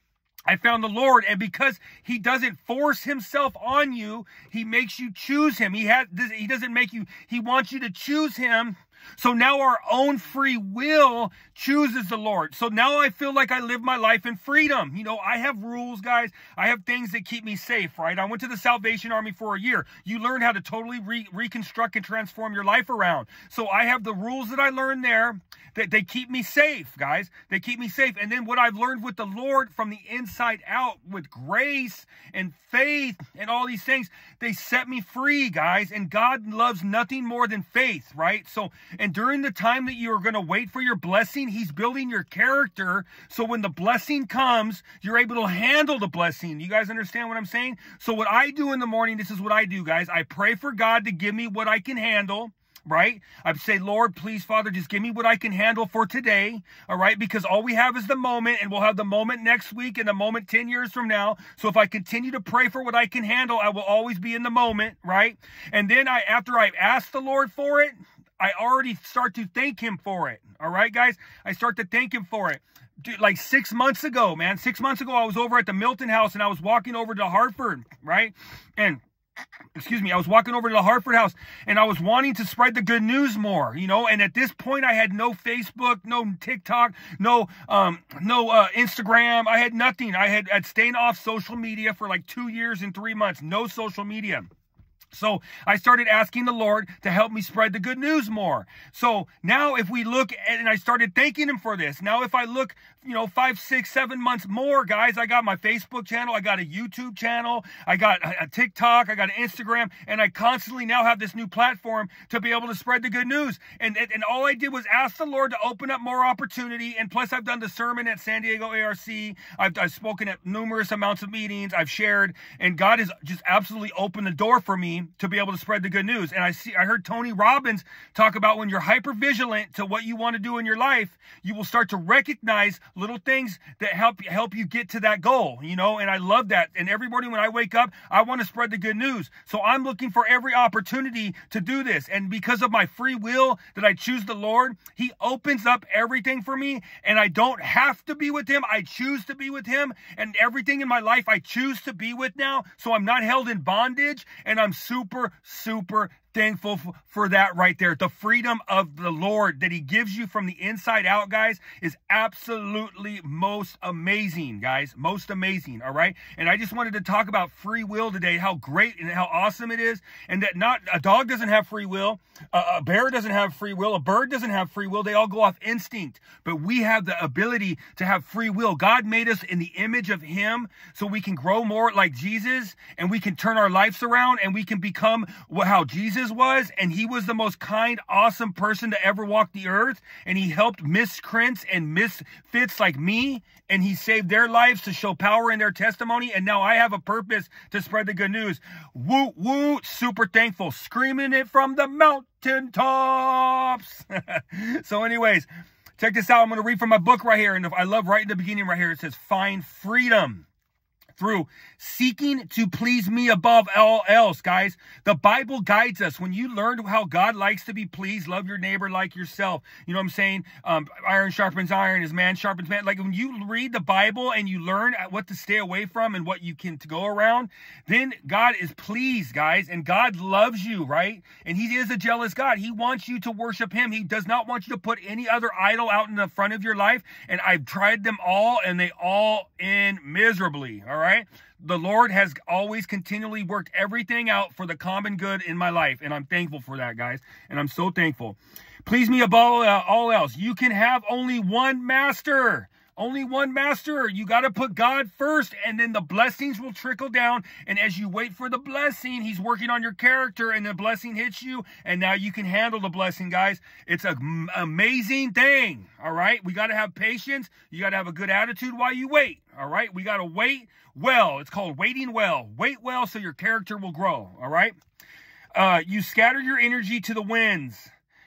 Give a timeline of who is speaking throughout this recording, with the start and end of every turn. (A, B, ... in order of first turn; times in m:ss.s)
0:00.5-1:19.0 A
1:19.7-1:34.5 A
1:35.1-3:30.5 A
3:31.1-4:34.8 A
4:35.5-4:37.9 A